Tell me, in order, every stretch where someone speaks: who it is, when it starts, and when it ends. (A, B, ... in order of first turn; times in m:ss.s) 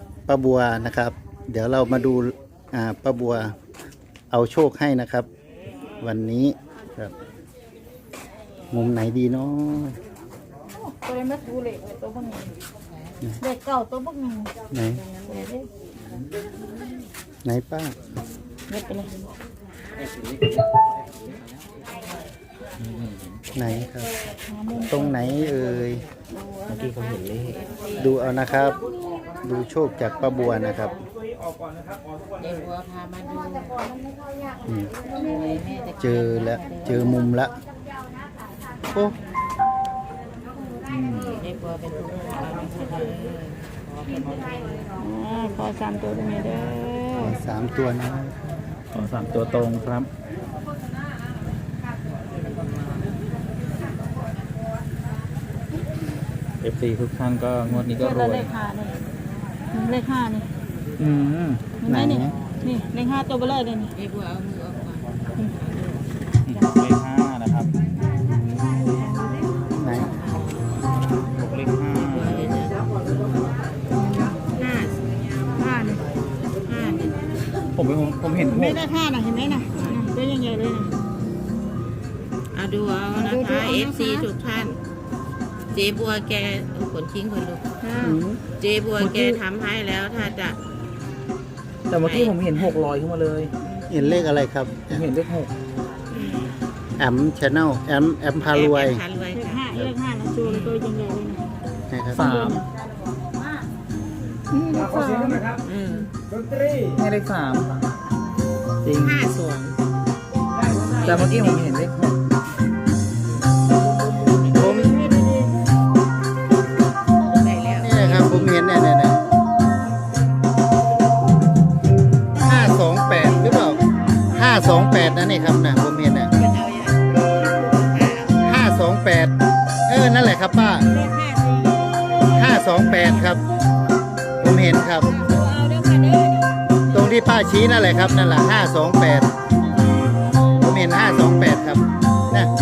0:00.3-0:03.5 A
0:04.3-0:05.3 A
0:06.0-0:07.1 A
0:08.7-0:10.0 A
0:10.8-0:12.5 B
0:13.4-0:15.7 B
0:14.7-0:15.0 A
0:17.4-0:18.0 A
0:18.7-0:19.1 B
0:20.0-0:21.4 C
0:22.8-0:23.4 C
0:23.5-0:24.1 A
0:24.5-0:25.6 B
0:24.9-0:26.0 A
0:26.4-0:26.7 B
0:26.7-0:27.6 C
0:27.2-0:28.2 D
0:28.0-0:28.8 A
0:29.4-0:31.0 A
0:32.4-0:34.0 D
0:34.7-0:34.9 A
0:35.0-0:37.2 D
0:36.0-0:37.5 A
0:38.9-0:39.2 A
0:40.9-0:41.4 C
0:41.3-0:44.5 D
0:45.0-0:47.4 B
0:47.2-0:48.4 A
0:48.9-0:50.1 C
0:56.6-0:58.5 C
0:57.7-0:59.0 B
0:59.7-1:00.5 B
1:01.0-1:01.6 C
1:01.8-1:03.9 B
1:01.9-1:02.4 A
1:03.9-1:06.0 D
1:06.5-1:07.7 C
1:09.8-1:10.1 A
1:09.9-1:10.7 D
1:11.4-1:12.6 C
1:12.0-1:13.0 D
1:14.0-1:14.4 B
1:14.5-1:15.2 D
1:15.6-1:16.0 B
1:16.6-1:17.2 D
1:17.8-1:18.9 C
1:18.4-1:21.0 B
1:19.8-1:20.1 D
1:22.5-1:24.8 D
1:23.1-1:24.3 B
1:25.7-1:27.8 D
1:27.8-1:28.2 B
1:28.0-1:28.4 A
1:28.5-1:30.6 D
1:29.0-1:29.4 C
1:31.9-1:33.5 C
1:32.0-1:32.7 D
1:33.9-1:35.1 A
1:34.9-1:35.5 C
1:36.2-1:36.5 D
1:37.0-1:39.0 A
1:38.4-1:39.6 D
1:39.3-1:41.4 B
1:40.4-1:40.8 D
1:41.9-1:42.2 A
1:42.1-1:42.6 C
1:42.1-1:42.7 B
1:44.5-1:45.6 B
1:44.9-1:45.7 C
1:45.7-1:46.1 D
1:46.9-1:47.7 C
1:48.8-1:49.2 C
1:49.0-1:49.8 D
1:50.7-1:51.8 D
1:51.0-1:52.1 C
1:54.2-1:54.9 D
1:54.5-1:55.1 A
1:54.8-1:55.5 B
1:57.2-1:58.6 D
1:57.8-1:59.2 A
2:02.4-2:03.8 A
2:04.3-2:06.3 A
2:06.4-2:08.5 D
2:08.4-2:09.3 A
2:09.9-2:10.9 A
2:10.9-2:12.3 B
2:12.3-2:13.4 A
2:14.4-2:15.1 A
2:15.1-2:16.5 B
2:16.9-2:19.3 A
2:20.6-2:22.5 A